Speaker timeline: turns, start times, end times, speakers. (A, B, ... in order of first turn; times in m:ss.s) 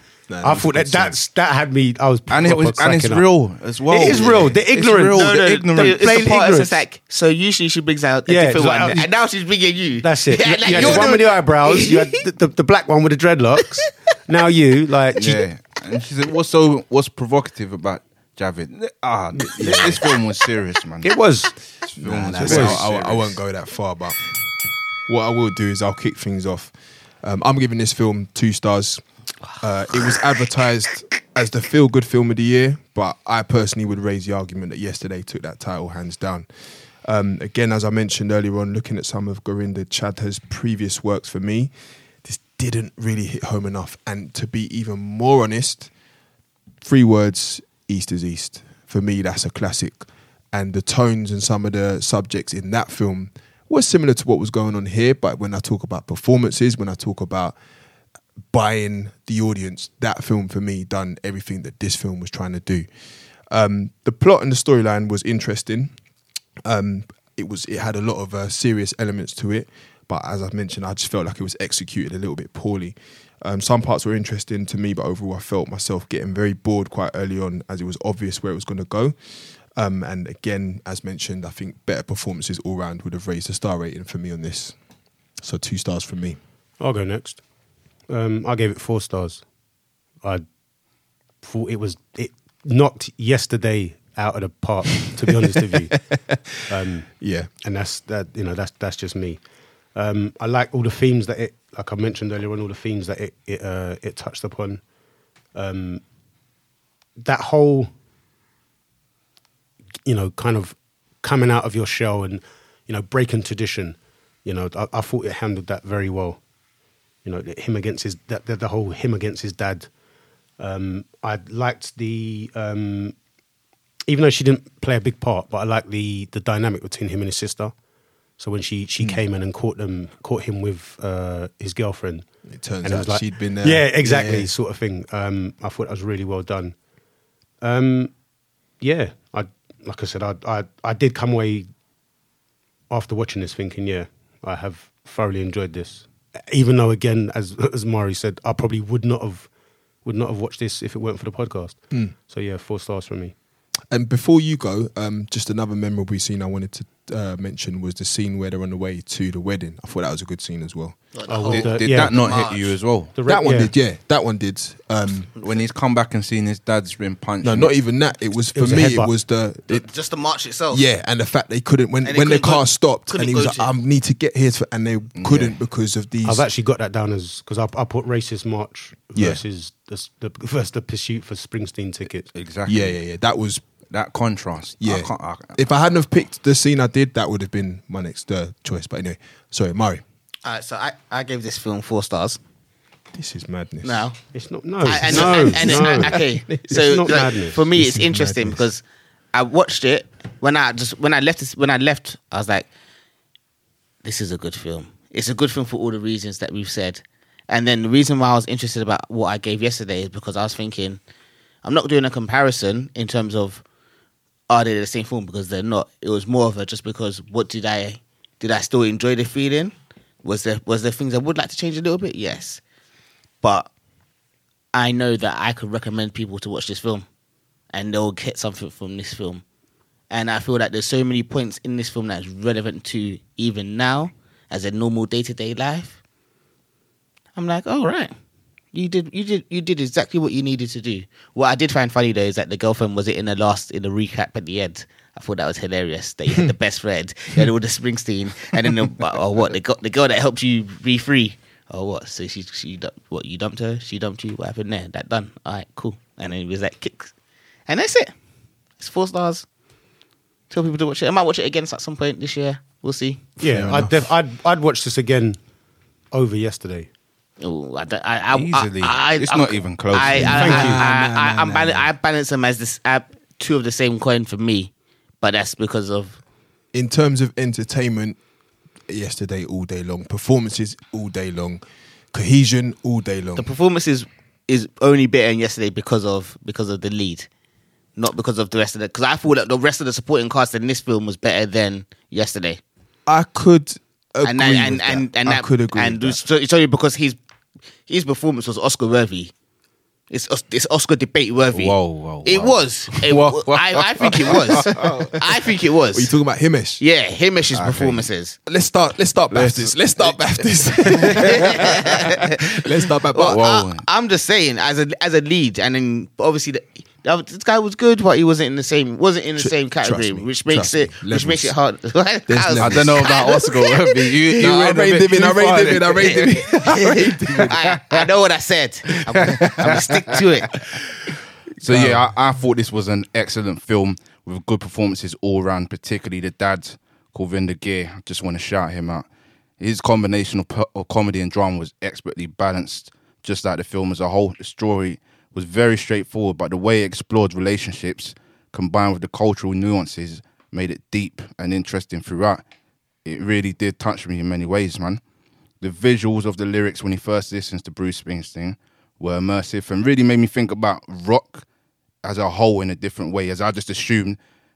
0:00.3-0:01.2 A
0:00.4-0:03.2 B
0:02.3-0:06.0 C
0:03.9-0:06.8 B
0:05.1-0:12.1 D
0:08.2-0:09.1 B
0:10.0-0:15.4 B
0:15.1-0:21.1 C
0:19.4-0:20.0 A
0:21.0-0:21.5 B
0:21.9-0:23.4 C
0:22.0-0:24.2 A
0:22.4-0:22.8 B
0:25.1-0:26.7 A
0:27.2-0:29.0 A
0:29.6-0:36.5 A
0:37.0-0:41.7 A
0:42.2-0:45.9 A
0:46.8-0:57.6 A
0:58.5-1:02.9 A
1:03.5-1:05.9 A
1:06.6-1:19.1 A
1:19.7-1:24.7 A
1:25.4-1:26.4 A
1:26.8-1:27.4 B
1:28.1-1:29.4 B
1:31.4-1:35.9 B
1:35.4-1:36.6 A
1:36.7-1:37.1 B
1:37.2-1:37.5 A
1:37.6-1:39.4 B
1:39.9-1:44.8 B
1:45.5-1:46.0 B
1:47.2-1:47.9 B
1:50.0-1:56.4 B
1:57.2-1:59.9 B
2:00.6-2:03.1 B
2:04.1-2:07.7 B
2:08.4-2:12.2 B
2:12.5-2:14.5 A
2:12.8-2:16.7 B
2:17.6-2:18.1 B
2:18.8-2:21.7 B
2:22.9-2:29.5 B
2:30.0-2:33.3 B
2:33.9-2:41.0 A
2:41.1-2:42.8 D
2:41.3-2:42.1 B
2:41.5-2:43.1 C
2:43.1-2:43.7 B
2:43.2-2:45.3 A
2:45.4-2:47.7 C
2:47.4-2:49.9 A
2:48.5-2:49.1 B
2:49.7-2:50.8 D
2:50.7-2:56.4 A
2:52.0-2:53.7 D
2:55.2-2:55.5 C
2:56.2-3:02.3 B
2:59.1-2:59.4 A
3:02.3-3:03.0 C
3:02.6-3:03.6 A
3:03.9-3:05.6 C
3:04.8-3:10.0 A
3:10.4-3:12.4 D
3:13.1-3:14.1 A
3:13.8-3:14.2 D
3:14.3-3:17.6 B
3:14.8-3:22.7 D
3:14.9-3:18.7 A
3:24.0-3:31.0 D
3:31.6-3:33.6 D
3:34.5-3:42.6 D
3:43.4-3:43.7 D
3:44.7-3:47.0 D
3:47.7-3:49.4 D
3:50.1-3:56.0 D
3:57.4-3:58.1 D
3:58.7-4:17.1 D
4:17.7-4:18.1 D
4:18.8-4:19.4 D
4:20.5-4:23.3 D
4:23.4-4:25.4 B
4:23.4-4:24.1 A
4:26.1-4:26.9 B
4:27.4-4:36.2 D
4:28.3-4:30.6 C
4:30.1-4:31.9 A
4:30.3-4:30.8 B
4:36.7-4:38.2 A
4:38.9-4:41.6 A
4:42.1-4:43.5 A
4:43.4-4:47.3 D
4:48.0-4:52.6 D
4:53.1-4:56.2 A
4:54.2-4:57.2 D
4:57.9-4:59.3 D
5:00.1-5:06.1 D
5:01.5-5:05.3 C
5:05.9-5:06.8 A
5:06.8-5:08.4 D
5:07.5-5:08.1 C
5:08.4-5:13.4 A
5:09.3-5:10.1 C
5:10.9-5:11.6 C
5:11.2-5:12.3 D
5:13.1-5:24.2 D
5:13.2-5:13.8 C
5:19.4-5:21.5 A
5:22.3-5:23.1 A
5:22.6-5:26.5 C
5:24.3-5:27.6 A
5:26.0-5:30.6 D
5:27.4-5:28.0 C
5:29.2-5:30.1 C
5:31.6-5:39.0 C
5:31.6-5:32.1 A
5:39.6-5:52.4 C
5:53.0-5:55.0 C
5:55.6-6:01.4 C
6:02.0-6:04.2 C